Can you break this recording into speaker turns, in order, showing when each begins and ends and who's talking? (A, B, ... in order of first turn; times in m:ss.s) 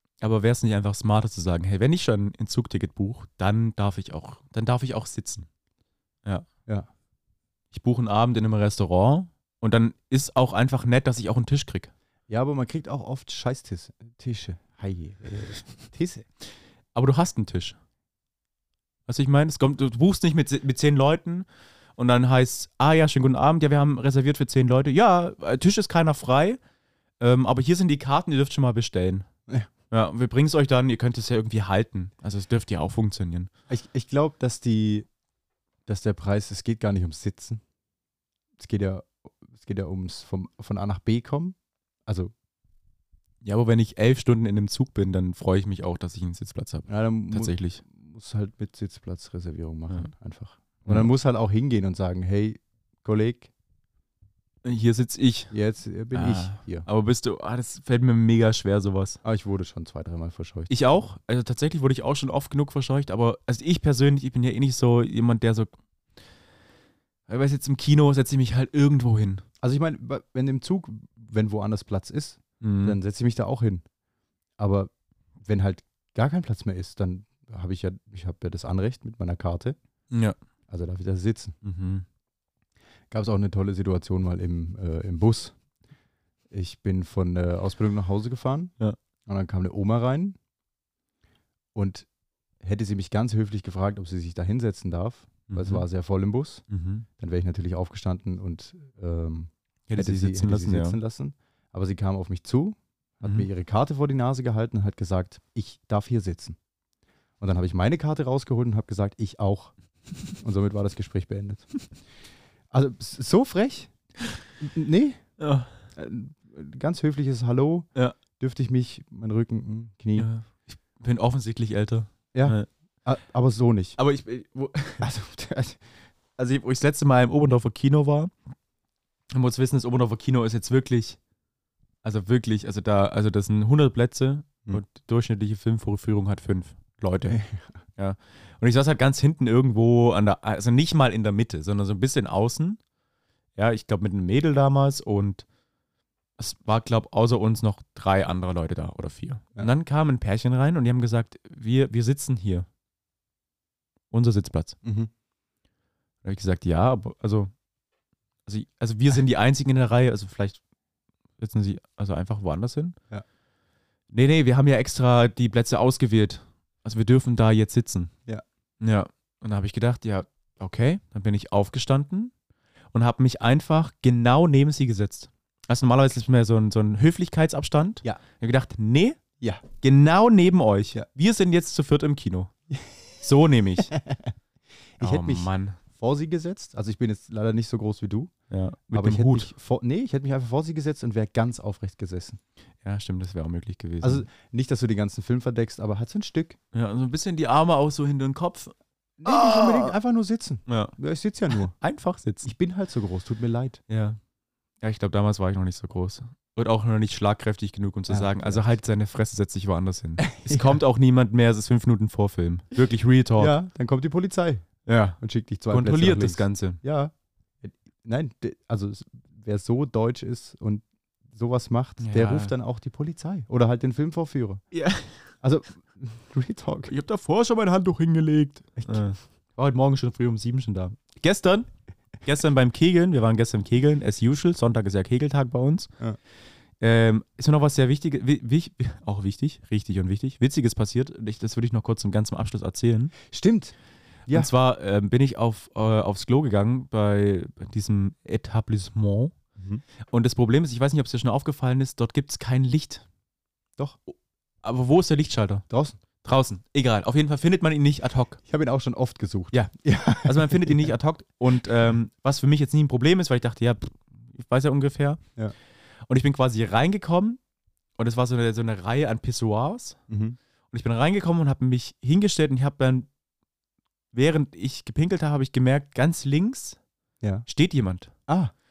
0:00.2-0:05.5 A
0:07.7-0:11.9 A
0:12.3-0:16.3 B
0:17.0-0:17.8 A
0:19.1-0:21.5 A
0:22.0-0:26.6 A
0:27.2-0:29.3 A
0:29.9-0:33.5 A
0:33.7-0:35.1 B
0:35.9-0:37.6 B
0:38.6-0:41.6 B
0:43.4-0:47.8 A
0:46.9-0:53.5 B
0:50.8-0:51.1 A
0:54.6-0:55.5 A
0:55.5-0:56.9 B
0:56.1-0:59.2 A
0:59.2-1:00.7 B
1:00.7-1:05.7 A
1:07.3-1:09.4 A
1:09.6-1:13.8 B
1:12.6-1:13.0 A
1:14.6-1:19.8 B
1:20.1-1:20.4 A
1:20.7-1:21.6 B
1:21.6-1:22.0 A
1:23.1-1:25.6 B
1:26.5-1:28.7 B
1:29.3-1:30.4 B
1:31.8-1:32.1 B
1:32.6-1:36.6 B
1:35.5-1:35.8 A
1:36.7-1:37.1 A
1:37.2-1:46.6 B
1:39.9-1:41.0 A
1:47.4-1:49.7 B
1:50.3-1:51.7 B
1:52.7-1:53.9 B
1:54.6-1:55.2 B
1:55.4-1:55.7 A
1:56.0-1:57.9 B
1:58.4-2:00.3 B
2:00.2-2:02.7 A
2:02.3-2:04.0 B
2:04.0-2:05.1 A
2:05.0-2:05.8 B
2:06.4-2:08.3 A
2:09.3-2:11.2 A
2:12.0-2:17.4 A
2:17.2-2:17.8 B
2:18.0-2:22.8 A
2:23.6-2:25.5 A
2:26.4-2:32.7 A
2:34.1-2:34.8 A
2:34.8-2:35.1 B
2:36.2-2:37.5 A
2:38.5-2:40.6 A
2:41.4-2:43.0 A
2:44.1-2:48.1 A
2:48.8-2:52.3 A
2:52.9-2:59.2 A
2:59.8-3:02.5 A
3:03.2-3:04.0 A
3:03.8-3:04.3 B
3:05.0-3:08.3 B
3:05.0-3:05.8 A
3:08.5-3:09.5 A
3:08.9-3:12.4 B
3:12.8-3:14.3 A
3:14.0-3:16.6 B
3:16.7-3:18.7 A
3:19.2-3:21.8 B
3:19.2-3:20.0 A
3:20.7-3:21.0 A
3:21.5-3:22.5 A
3:22.4-3:23.8 B
3:23.9-3:24.2 A
3:24.8-3:33.5 A
3:28.1-3:28.7 B
3:30.3-3:30.8 B
3:33.4-3:34.7 B
3:34.9-3:35.2 A
3:35.2-3:44.6 B
3:35.7-3:36.8 A
3:42.0-3:42.5 A
3:44.7-3:45.3 A
3:45.4-3:46.9 B
3:46.9-3:51.7 A
3:48.8-3:49.0 B
3:52.2-3:55.9 A
3:56.8-4:03.1 A
4:03.3-4:03.7 B
4:04.3-4:09.4 A
4:09.6-4:09.8 B
4:10.1-4:13.0 A
4:14.1-4:15.6 A
4:15.7-4:16.0 B
4:16.2-4:18.4 A
4:18.5-4:20.9 B
4:19.5-4:25.2 A
4:26.1-4:27.4 A
4:28.0-4:30.0 A
4:30.1-4:30.4 B
4:30.7-4:33.1 A
4:34.1-4:36.8 A
4:37.5-4:38.1 A